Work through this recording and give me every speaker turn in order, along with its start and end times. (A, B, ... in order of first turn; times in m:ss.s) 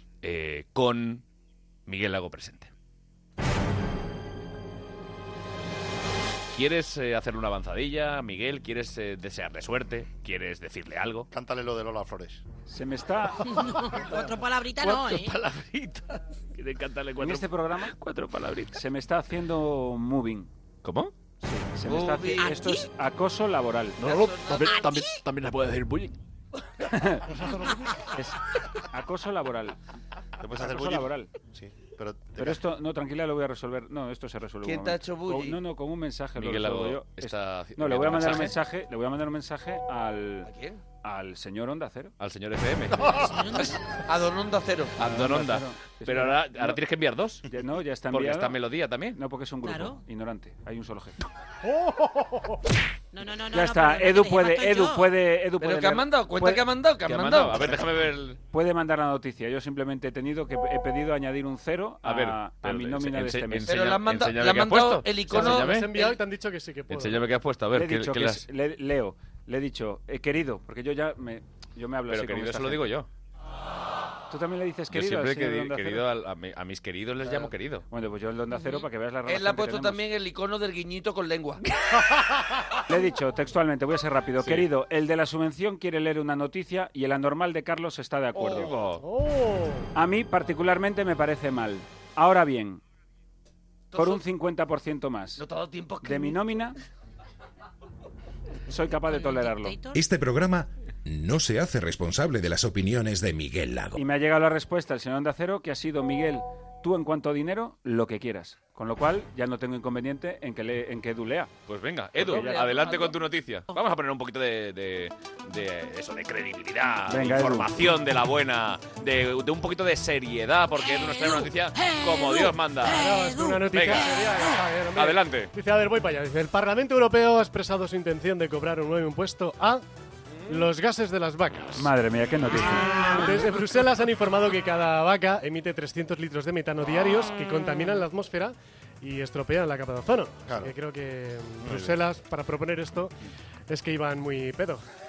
0:00.2-0:01.2 A
0:01.9-0:02.7 A
0:06.5-0:11.3 A
0:11.3-0:12.4 B
0:12.7-0:13.6 C
0:13.4-0:15.3 D
0:14.8-0:18.8 A
0:17.2-0:18.0 C
0:18.7-0:20.5 C
0:20.8-0:21.1 A
0:21.4-0:24.0 C
0:21.9-0:22.6 E
0:22.4-0:22.9 D
0:24.0-0:26.1 A
0:24.0-0:24.9 E
0:24.7-0:25.0 D
0:26.9-0:27.4 C
0:28.1-0:29.8 C
0:30.4-0:32.6 B
0:30.5-0:31.3 C
0:32.4-0:40.5 C
0:34.6-0:35.6 E
0:36.4-0:38.6 A
0:40.5-0:40.8 E
0:41.0-0:42.1 C
0:42.2-0:43.6 A
0:43.1-0:43.8 D
0:44.1-0:45.0 E
0:45.0-0:47.5 A
0:45.0-0:46.8 C
0:47.5-0:48.6 C
0:48.1-0:49.2 A
0:49.1-0:51.2 C
0:49.6-0:50.0 D
0:51.7-0:52.5 F
0:53.1-0:55.1 D
0:53.5-0:56.7 C
0:55.6-0:57.8 E
0:57.1-0:58.4 A
0:58.5-1:03.8 C
1:02.0-1:05.9 A
1:03.7-1:06.2 E
1:05.3-1:07.2 F
1:06.9-1:08.5 A
1:07.7-1:13.0 C
1:12.1-1:13.1 A
1:14.3-1:16.1 C
1:14.9-1:17.9 A
1:17.9-1:20.0 C
1:18.5-1:18.9 D
1:19.3-1:21.6 E
1:22.9-1:28.8 C
1:24.4-1:24.7 A
1:28.4-1:29.0 A
1:29.0-1:29.9 F
1:30.0-1:32.8 C
1:33.9-1:34.2 E
1:34.0-1:35.4 C
1:35.4-1:36.5 E
1:36.0-1:36.8 C
1:38.7-1:39.8 C
1:39.1-1:40.0 D
1:39.9-1:44.0 G
1:44.0-1:51.5 C
1:51.7-2:03.0 A
1:52.2-1:52.8 C
1:52.2-1:53.2 E
1:57.1-1:57.7 C
2:00.8-2:01.5 D
2:02.1-2:04.5 D
2:02.9-2:09.8 F
2:03.7-2:04.1 A
2:04.9-2:05.5 A
2:10.5-2:11.9 F
2:11.8-2:13.3 C
2:12.7-2:23.1 F
2:20.5-2:20.7 B
2:21.6-2:22.0 B
2:23.7-2:24.8 F